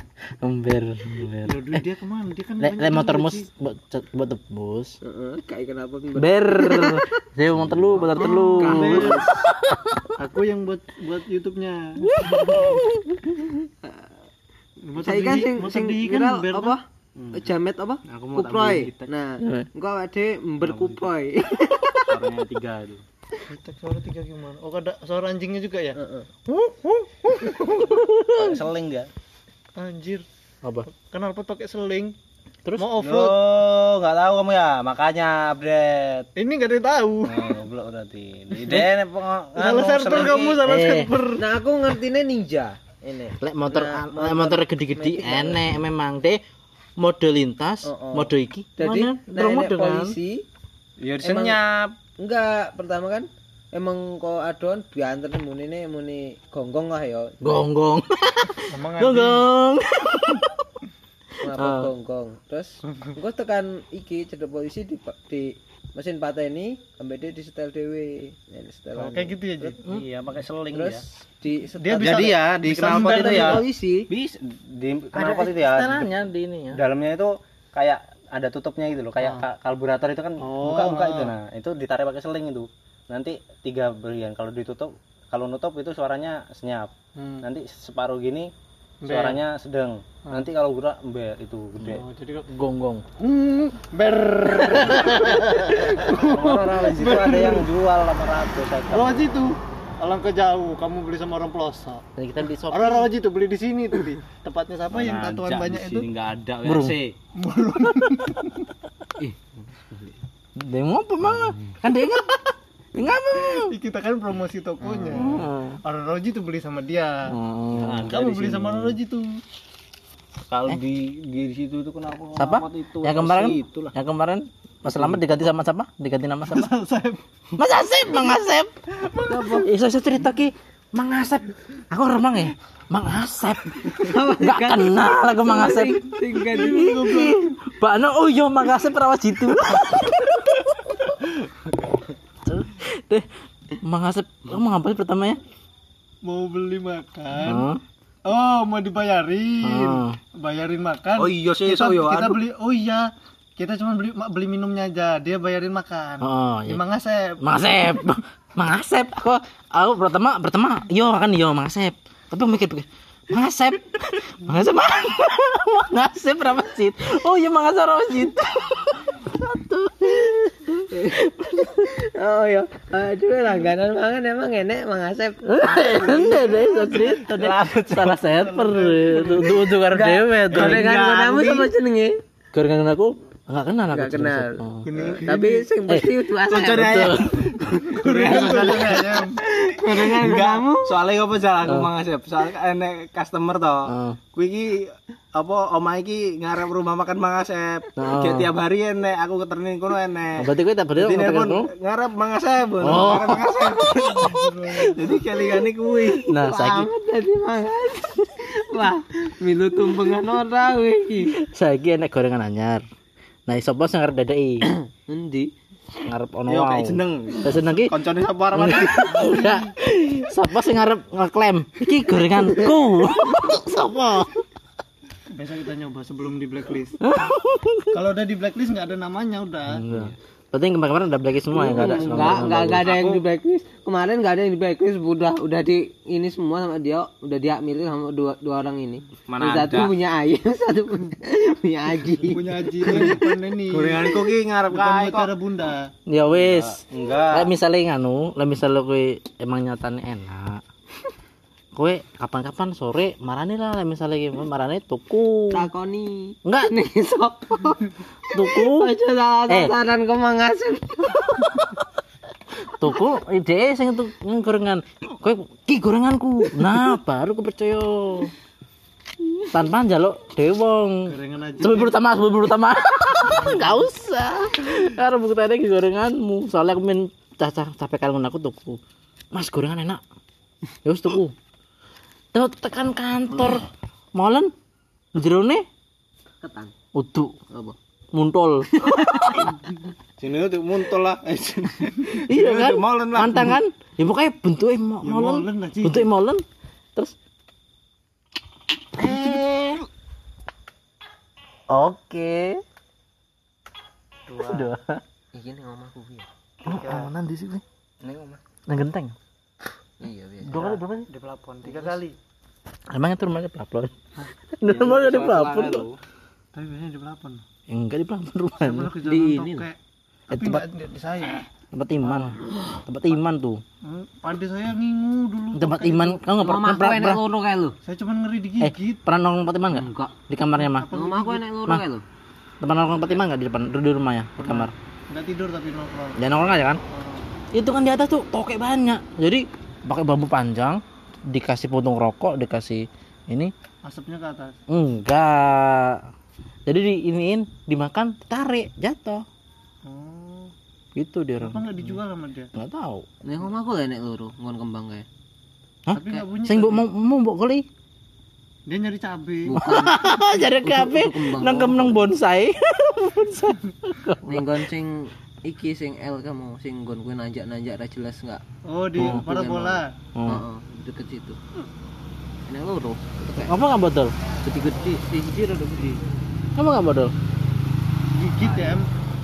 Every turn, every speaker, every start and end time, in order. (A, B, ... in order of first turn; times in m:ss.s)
0:00.4-0:01.8 A
0:01.4-0:03.4 B
0:02.6-0:05.0 A
0:05.0-0:07.1 C
0:06.2-0:10.0 A
0:07.6-0:08.3 D
0:08.2-0:09.3 C
0:08.4-0:09.3 B
0:10.2-0:12.7 B
0:12.1-0:13.5 A
0:14.9-0:16.8 B
0:15.0-0:16.8 C
0:17.2-0:17.5 D
0:17.3-0:22.1 C
0:18.1-0:19.1 D
0:19.4-0:19.7 A
0:20.6-0:21.0 D
0:22.0-0:23.0 D
0:23.5-0:28.0 B
0:26.0-0:26.3 C
0:27.9-0:28.5 A
0:28.3-0:29.1 D
0:29.8-0:30.2 B
0:30.9-0:32.1 B
0:32.8-0:33.4 B
0:33.0-0:36.3 D
0:36.4-0:37.6 B
0:37.2-0:40.6 D
0:38.6-0:38.9 B
0:39.6-0:41.4 B
0:40.6-0:41.1 A
0:41.4-0:45.7 C
0:43.4-0:46.4 A
0:47.0-0:50.1 A
0:47.8-0:50.4 C
0:51.0-0:52.0 D
0:51.2-0:51.6 C
0:52.2-0:57.5 C
0:57.4-1:00.6 A
0:58.7-0:59.4 B
1:01.4-1:09.8 C
1:01.6-1:01.9 A
1:09.0-1:09.8 B
1:09.8-1:11.0 D
1:10.7-1:12.2 C
1:11.8-1:13.6 B
1:12.0-1:16.1 D
1:12.8-1:14.1 C
1:15.1-1:16.8 A
1:16.7-1:28.5 D
1:19.2-1:19.4 C
1:20.4-1:21.3 B
1:27.2-1:27.4 B
1:29.0-1:29.4 B
1:29.0-1:32.0 D
1:31.8-1:32.5 B
1:32.5-1:33.0 A
1:33.2-1:37.7 B
1:35.9-1:39.3 D
1:38.9-1:42.0 B
1:42.2-1:43.1 A
1:42.7-1:46.1 B
1:44.9-1:47.2 D
1:46.6-1:47.0 A
1:47.4-1:48.6 B
1:49.2-1:49.5 C
1:50.6-1:53.7 A
1:53.5-1:57.3 B
1:55.0-1:55.2 D
1:55.1-1:55.8 A
1:57.3-1:58.1 A
1:57.7-1:59.0 D
1:58.0-1:59.4 B
2:00.5-2:03.9 D
2:02.4-2:06.7 A
2:04.8-2:05.2 D
2:06.5-2:07.2 B
2:07.6-2:08.7 A
2:09.0-2:09.6 B
2:09.3-2:09.7 C
2:09.6-2:21.0 A
2:13.8-2:17.1 C
2:16.4-2:17.5 B
2:22.4-2:23.2 A
2:23.8-2:25.4 A
2:26.2-2:27.6 B
2:27.4-2:27.8 A
2:28.2-2:37.4 B
2:29.6-2:30.2 A
2:31.2-2:32.4 D
2:36.2-2:36.8 A
2:37.4-2:51.9 A
2:50.9-2:51.2 C
2:51.7-2:57.0 C
2:55.4-3:00.8 A
2:56.0-2:57.2 B
2:57.0-2:58.2 D
2:58.2-2:59.7 B
2:59.9-3:02.2 C
3:00.5-3:01.4 B
3:00.8-3:01.6 D
3:02.5-3:04.9 A
3:03.9-3:04.6 C
3:04.8-3:05.7 B
3:04.9-3:05.2 D
3:05.2-3:07.0 C
3:05.9-3:07.5 A
3:06.4-3:26.3 D
3:07.8-3:09.4 B
3:09.4-3:10.9 C
3:11.6-3:11.9 A
3:13.9-3:14.2 A
3:18.0-3:18.5 A
3:20.4-3:21.7 A
3:22.8-3:23.5 A
3:23.8-3:25.2 B
3:26.2-3:26.9 A
3:26.3-3:31.3 C
3:31.3-3:32.8 A
3:33.5-3:34.7 A
3:34.6-3:35.5 C
3:36.0-3:37.9 A
3:36.5-3:39.3 D
3:38.5-3:44.3 A
3:39.0-3:39.7 B
3:45.3-3:47.0 B
3:47.0-3:48.0 A
3:47.9-3:49.8 B
3:49.7-3:52.8 A
3:51.5-4:03.2 C
3:52.0-3:53.2 D
3:52.8-3:53.2 B
3:59.3-3:59.9 D
4:02.3-4:05.9 B
4:02.8-4:05.3 D
4:06.1-4:10.6 A
4:06.3-4:07.5 D
4:11.7-4:15.7 A
4:15.5-4:21.6 C
4:16.4-4:16.7 A
4:18.3-4:18.9 A
4:22.8-4:28.3 A
4:29.5-4:38.8 A
4:31.1-4:32.0 B
4:33.3-4:33.8 B
4:39.3-4:40.0 A
4:40.8-4:41.3 A
4:42.3-4:43.6 A
4:44.1-4:44.5 A
4:45.1-4:45.6 A
4:46.4-4:46.7 C
4:46.9-4:47.3 A
4:47.5-4:47.8 C
4:48.1-4:49.5 A
4:48.8-4:49.7 C
4:50.2-4:53.6 D
4:52.1-4:56.4 A
4:55.0-4:56.1 B
4:59.0-4:59.8 A
5:01.7-5:02.6 A
5:04.3-5:04.7 B
5:04.5-5:05.0 A
5:05.3-5:06.3 C
5:06.6-5:07.6 A
5:06.6-5:07.1 B
5:08.0-5:08.4 D
5:08.7-5:09.1 A
5:10.0-5:10.7 C
5:10.4-5:11.0 A
5:10.6-5:12.2 B
5:11.6-5:12.0 C
5:12.9-5:13.9 A
5:14.6-5:15.8 A
5:14.6-5:16.0 D
5:16.5-5:17.4 B
5:17.7-5:18.9 A
5:18.6-5:21.5 B
5:19.0-5:19.7 C
5:20.3-5:20.6 A
5:21.5-5:23.6 A
5:23.8-5:26.2 B
5:25.5-5:27.2 A
5:26.4-5:27.7 C
5:27.8-5:29.0 B
5:28.6-5:30.9 A
5:29.7-5:30.2 C
5:30.6-5:31.4 B
5:30.9-5:32.0 C
5:32.6-5:34.7 A
5:34.4-5:36.2 B
5:36.2-5:36.8 A
5:36.9-5:37.3 B
5:37.5-5:43.5 A
5:43.8-5:44.6 B
5:44.7-5:46.0 A
5:46.7-5:49.2 A
5:49.8-5:50.5 B
5:51.0-5:51.8 A
5:51.4-5:52.5 B
5:52.5-5:53.0 A
5:53.2-5:55.0 C
5:55.9-5:57.6 A
5:55.9-5:56.8 B
5:56.0-5:56.2 C
5:58.7-5:59.6 B
5:59.5-6:02.1 C
5:59.5-6:04.6 A
6:04.2-6:08.4 C
6:08.6-6:09.9 B
6:09.0-6:09.2 A
6:09.0-6:11.4 C
6:10.1-6:10.4 A
6:12.5-6:13.6 C
6:13.4-6:14.1 A
6:14.4-6:16.0 C
6:16.6-6:17.1 A
6:18.1-6:18.9 B